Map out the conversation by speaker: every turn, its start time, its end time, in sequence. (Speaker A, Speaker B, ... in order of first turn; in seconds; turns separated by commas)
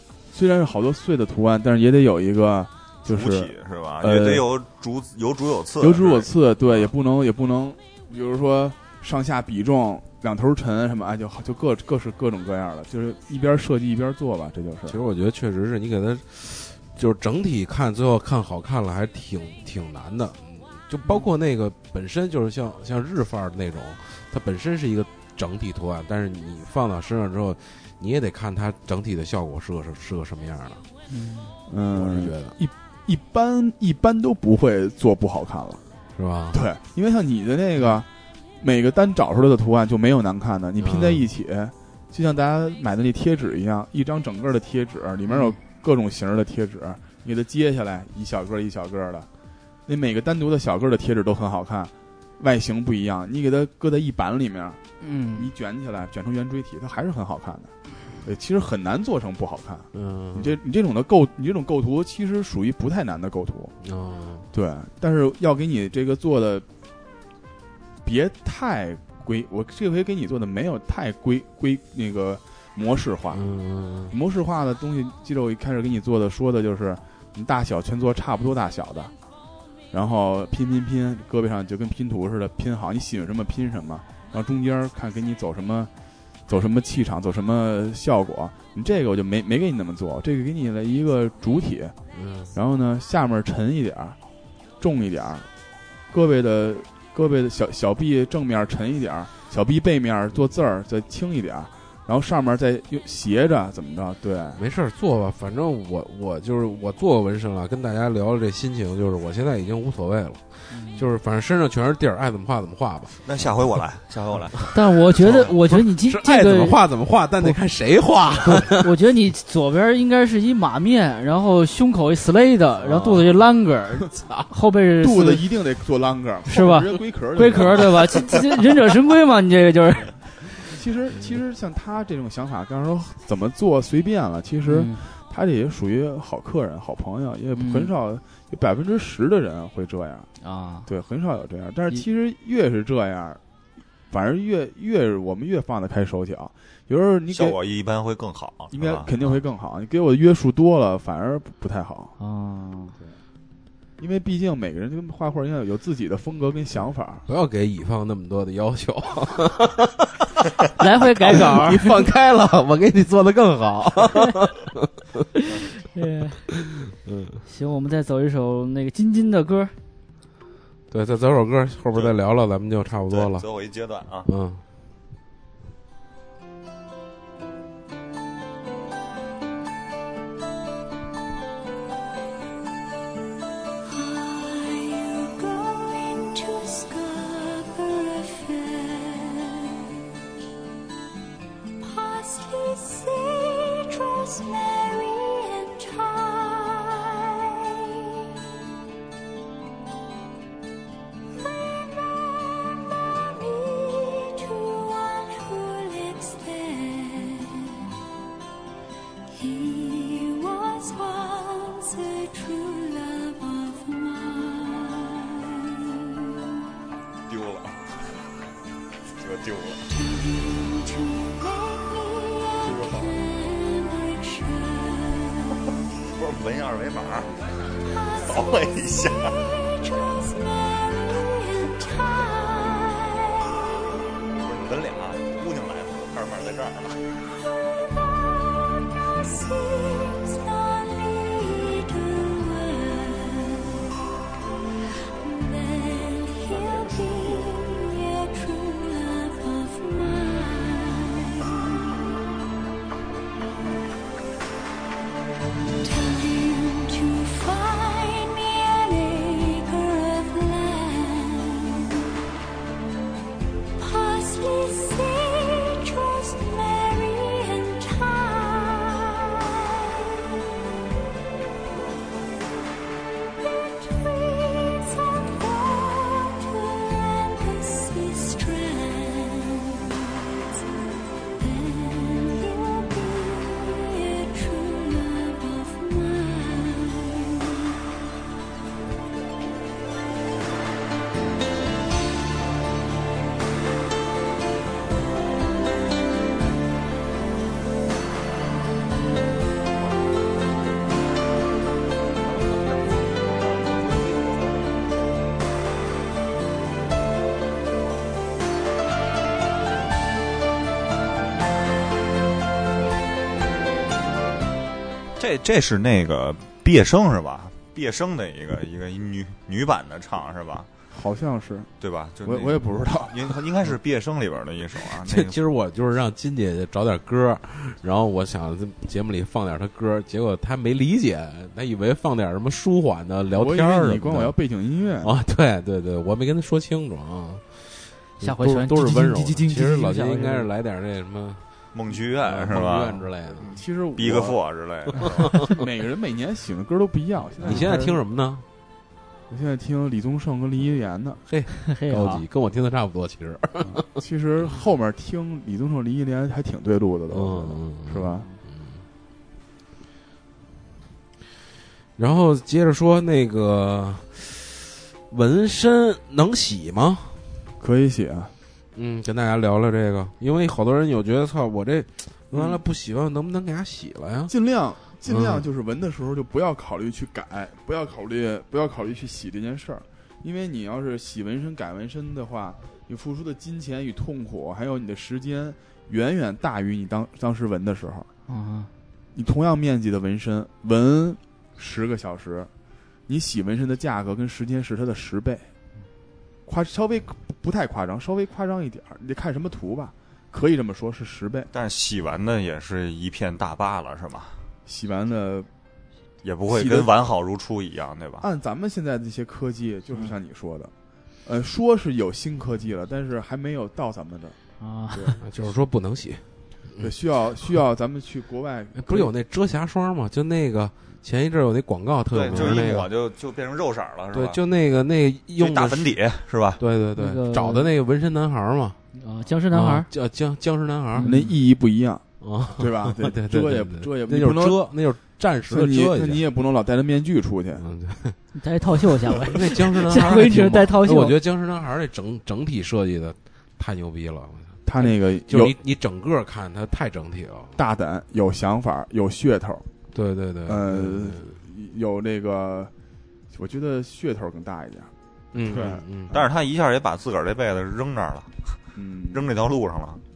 Speaker A: 0.3-4.5, Speaker B: 3.1-6.9, Speaker A: 5.8-15.0, Speaker C: 14.9-30.8, Speaker D: 31.1-31.6, Speaker A: 31.7-35.8, Speaker C: 31.9-32.5, Speaker C: 36.1-36.6, Speaker A: 36.5-38.1, Speaker A: 38.6-49.3, Speaker C: 40.8-41.3, Speaker D: 45.3-45.6, Speaker A: 49.9-54.8, Speaker D: 55.0-55.5, Speaker A: 55.4-63.8, Speaker C: 59.9-60.6, Speaker C: 63.8-64.5, Speaker A: 64.5-66.7, Speaker A: 68.0-73.5, Speaker C: 73.3-74.2, Speaker A: 74.1-79.1, Speaker A: 79.9-85.9, Speaker A: 86.5-92.0, Speaker C: 92.1-92.5, Speaker A: 92.5-94.2, Speaker A: 94.8-95.5, Speaker A: 96.1-104.6, Speaker C: 104.6-113.2, Speaker D: 110.7-111.1, Speaker B: 113.2-114.7, Speaker D: 114.7-116.8, Speaker C: 115.2-118.9, Speaker D: 118.4-125.4, Speaker C: 122.8-123.3, Speaker A: 125.0-127.9, Speaker D: 126.5-130.2, Speaker A: 130.6-140.3, Speaker D: 134.6-135.1, Speaker D: 137.6-137.9, Speaker D: 140.4-140.9, Speaker A: 140.9-143.4, Speaker A: 144.1-147.6, Speaker B: 147.3-149.1, Speaker A: 148.7-152.2, Speaker D: 152.2-153.0, Speaker A: 154.0-157.3, Speaker C: 157.3-160.1, Speaker D: 160.8-161.9, Speaker C: 161.2-164.9, Speaker D: 165.9-166.5, Speaker C: 167.0-167.4, Speaker D: 167.5-169.8, Speaker C: 170.9-173.4, Speaker B: 173.0-174.3, Speaker C: 174.3-174.6, Speaker E: 183.8-189.8, Speaker E: 191.8-198.3, Speaker E: 201.4-207.9, Speaker E: 209.3-216.3, Speaker B: 217.3-217.9, Speaker B: 219.2-219.9, Speaker E: 219.9-225.8, Speaker B: 222.6-223.2, Speaker B: 226.1-227.4, Speaker E: 227.7-233.8, Speaker B: 228.2-229.5, Speaker B: 234.4-237.1, Speaker E: 237.3-243.9, Speaker E: 245.0-252.2, Speaker B: 246.7-247.1, Speaker E: 255.8-262.1, Speaker E: 263.8-269.8, Speaker E: 273.4-287.7, Speaker B: 315.2-320.7, Speaker A: 320.9-321.7, Speaker B: 321.8-325.4, Speaker A: 322.2-323.4, Speaker C: 324.9-334.3, Speaker A: 333.3-335.1, Speaker C: 335.0-337.7, Speaker C: 338.2-341.4, Speaker D: 338.2-340.5, Speaker B: 341.7-343.1, Speaker C: 342.2-343.6, Speaker A: 343.4-344.4, Speaker B: 343.9-345.4, Speaker A: 344.9-348.0, Speaker C: 347.4-348.4, Speaker A: 349.3-351.2, Speaker C: 351.3-353.9, Speaker D: 351.5-352.2, Speaker A: 353.6-358.3, Speaker C: 357.1-358.8, Speaker C: 362.0-367.2, Speaker A: 367.6-368.3, Speaker C: 368.8-374.3, Speaker A: 372.3-372.6, Speaker A: 374.3-388.1, Speaker C: 375.1-375.4, Speaker D: 388.3-388.7, Speaker A: 389.1-392.5, Speaker A: 393.1-395.5, Speaker A: 396.5-401.5, Speaker B: 401.5-404.4, Speaker A: 404.7-405.5, Speaker B: 406.2-408.3, Speaker A: 406.5-406.9, Speaker A: 408.2-410.7, Speaker A: 411.2-414.4, Speaker D: 414.6-415.2, Speaker C: 415.2-416.9, Speaker A: 416.8-419.1, Speaker C: 418.8-422.9, Speaker B: 422.1-424.4, Speaker C: 424.1-426.0, Speaker B: 425.4-426.6, Speaker C: 426.6-428.8, Speaker D: 427.0-427.7, Speaker D: 428.9-429.9, Speaker C: 429.5-431.2, Speaker D: 430.9-431.3, Speaker A: 431.0-434.7, Speaker C: 432.2-436.2, Speaker A: 435.5-437.7, Speaker C: 437.6-438.2, Speaker D: 438.3-441.2, Speaker C: 439.1-447.6, Speaker A: 444.6-445.6, Speaker A: 447.6-449.7, Speaker C: 449.9-451.4, Speaker A: 450.4-452.7, Speaker A: 453.3-454.9, Speaker C: 455.3-456.2, Speaker A: 455.4-456.2, Speaker B: 456.1-458.6, Speaker A: 458.8-459.3, Speaker B: 459.1-460.0